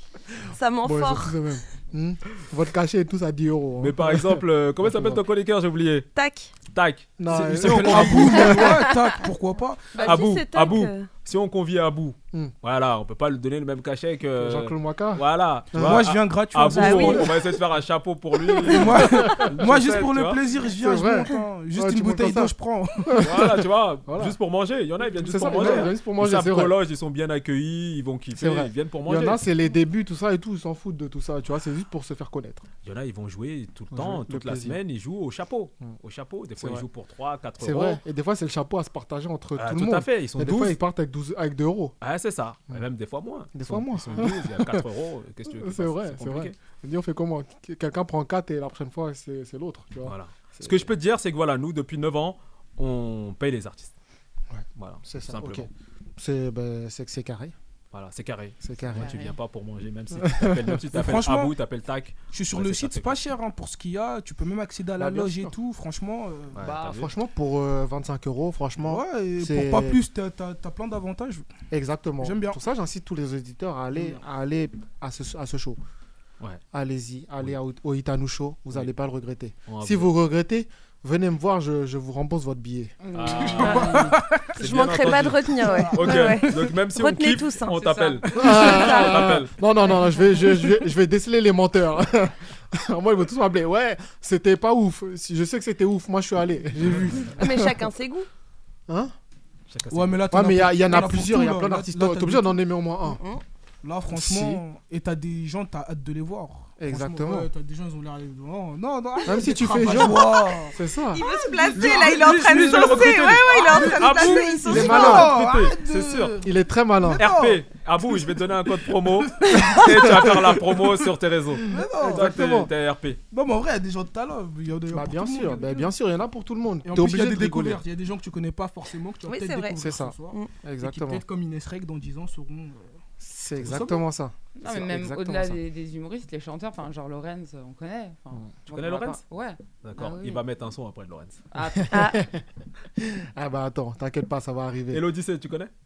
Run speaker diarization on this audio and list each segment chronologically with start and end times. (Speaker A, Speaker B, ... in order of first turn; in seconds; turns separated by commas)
Speaker A: 0.5-1.4, Speaker B: 0.8-5.2, Speaker C: 3.8-6.1, Speaker A: 6.1-6.5, Speaker C: 6.7-8.6, Speaker B: 7.2-8.9, Speaker D: 7.3-10.2, Speaker A: 9.9-11.1, Speaker C: 10.0-20.4, Speaker B: 14.3-16.1, Speaker D: 15.8-17.3, Speaker A: 16.7-17.4, Speaker D: 18.7-23.2, Speaker B: 19.1-19.5, Speaker B: 20.7-22.5, Speaker B: 23.1-24.4, Speaker C: 23.2-29.4, Speaker B: 25.2-26.8, Speaker B: 28.3-32.6, Speaker C: 32.8-38.0, Speaker B: 33.9-34.8, Speaker B: 36.6-36.9, Speaker B: 37.6-42.0, Speaker C: 39.5-40.8, Speaker C: 42.0-46.5, Speaker B: 43.5-44.9, Speaker B: 45.5-50.9, Speaker C: 50.0-53.9, Speaker B: 54.5-57.5, Speaker C: 54.8-55.7, Speaker C: 57.9-63.2, Speaker B: 58.6-59.3, Speaker B: 60.1-60.8, Speaker D: 60.9-61.5, Speaker D: 62.3-66.7, Speaker B: 65.0-65.5, Speaker C: 66.5-67.1, Speaker B: 66.7-70.0, Speaker D: 68.8-71.5, Speaker B: 71.7-75.8, Speaker D: 72.2-72.6, Speaker D: 73.9-74.2, Speaker B: 76.7-83.0, Speaker C: 79.7-80.1, Speaker E: 83.0-84.0, Speaker C: 83.1-89.6, Speaker D: 83.4-84.5, Speaker A: 83.7-84.0, Speaker A: 84.5-89.3, Speaker D: 85.6-86.7, Speaker E: 87.7-88.3, Speaker B: 88.3-97.9, Speaker D: 88.5-89.0, Speaker D: 96.9-97.3, Speaker A: 97.4-98.3, Speaker B: 98.9-99.1, Speaker C: 99.7-100.3, Speaker D: 99.9-102.6, Speaker B: 100.3-103.2, Speaker A: 103.1-103.4, Speaker D: 103.8-120.2, Speaker B: 104.1-104.6, Speaker B: 106.8-107.5, Speaker B: 109.2-111.2, Speaker A: 111.1-115.4, Speaker C: 111.7-116.4, Speaker B: 114.6-115.3, Speaker B: 116.4-117.3, Speaker C: 117.2-123.2, Speaker B: 119.5-120.5, Speaker D: 121.7-122.6, Speaker B: 121.7-122.7, Speaker D: 123.3-125.9, Speaker B: 124.9-127.8, Speaker D: 126.8-132.9, Speaker A: 129.2-130.5, Speaker B: 129.8-131.2, Speaker B: 133.2-135.6, Speaker D: 133.6-134.1, Speaker E: 134.6-140.4, Speaker C: 138.7-139.2, Speaker C: 139.8-141.4, Speaker E: 141.5-141.9, Speaker B: 141.9-142.4, Speaker A: 141.9-142.2, Speaker B: 143.0-145.0, Speaker C: 144.9-145.7